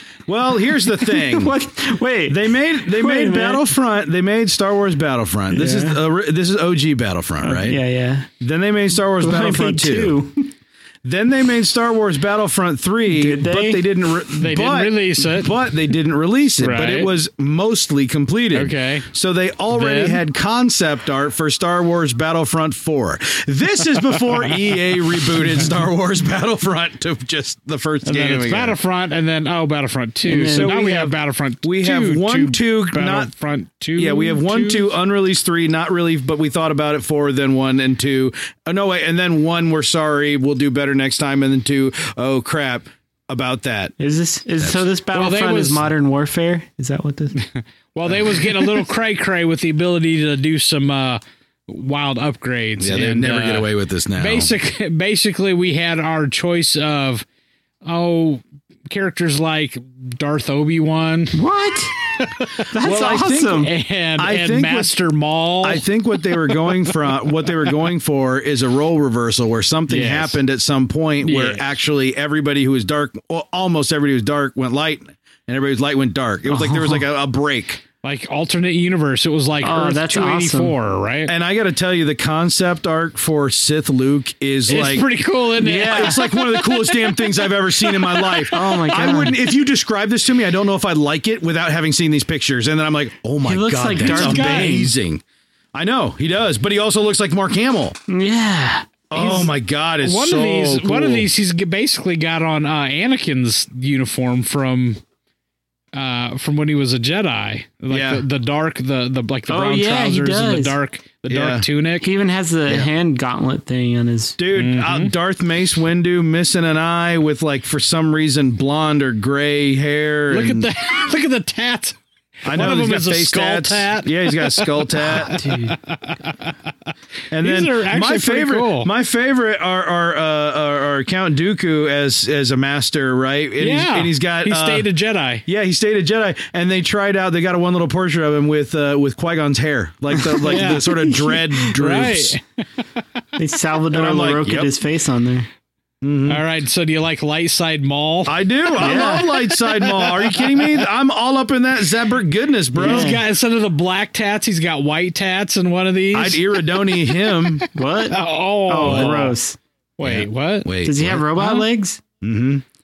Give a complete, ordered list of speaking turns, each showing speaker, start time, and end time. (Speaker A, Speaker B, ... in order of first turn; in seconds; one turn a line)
Speaker A: 0.3-1.5
Speaker B: 0.9-3.6
Speaker A: 2.3-7.8
Speaker B: 5.5-6.0
Speaker B: 7.4-8.3
Speaker A: 8.4-10.2
Speaker B: 9.2-10.5
Speaker A: 11.0-28.8
Speaker B: 13.1-13.8
Speaker C: 14.3-15.6
Speaker C: 16.6-17.1
Speaker C: 18.5-19.1
Speaker C: 19.7-20.2
Speaker C: 28.0-34.9
Speaker B: 30.2-30.7
Speaker A: 30.5-33.3
Speaker A: 34.0-43.9
Speaker B: 44.0-47.4
Speaker A: 44.6-44.8
Speaker C: 45.1-45.9
Speaker C: 47.4-57.2
Speaker A: 52.8-54.5
Speaker C: 57.8-61.4
Speaker B: 61.3-61.9
Speaker C: 62.1-62.5
Speaker B: 62.7-63.7
Speaker A: 62.7-63.6
Speaker C: 63.5-66.6
Speaker A: 64.2-64.9
Speaker A: 65.6-77.8
Speaker C: 69.9-70.4
Speaker C: 71.2-71.6
Speaker B: 76.5-77.0
Speaker C: 78.0-81.3
Speaker B: 79.6-80.7
Speaker A: 81.3-85.0
Speaker C: 84.7-88.5
Speaker B: 85.6-86.3
Speaker A: 85.7-95.2
Speaker B: 88.5-89.3
Speaker B: 93.4-94.9
Speaker C: 94.0-94.8
Speaker A: 95.7-98.0
Speaker B: 98.1-99.5
Speaker A: 99.1-101.3
Speaker C: 99.2-99.5
Speaker C: 100.0-105.0
Speaker C: 105.9-112.1
Speaker A: 107.9-108.2
Speaker B: 109.5-110.8
Speaker A: 111.3-111.7
Speaker B: 112.0-114.4
Speaker A: 114.4-120.7
Speaker C: 114.5-115.1
Speaker C: 120.3-126.5
Speaker A: 122.4-125.4
Speaker B: 125.2-125.8
Speaker A: 127.3-134.9
Speaker C: 127.4-128.9
Speaker C: 133.6-135.4
Speaker A: 135.5-142.4
Speaker C: 140.3-142.4
Speaker B: 143.3-145.5
Speaker A: 143.9-144.7
Speaker A: 146.0-146.4
Speaker C: 146.3-150.7
Speaker A: 148.3-153.2
Speaker B: 148.8-149.3
Speaker B: 152.7-153.2
Speaker C: 152.8-159.3
Speaker A: 156.1-157.6
Speaker B: 157.7-159.6
Speaker C: 160.0-160.7
Speaker A: 160.0-161.3
Speaker B: 160.8-162.0
Speaker C: 161.3-161.7
Speaker A: 162.2-162.6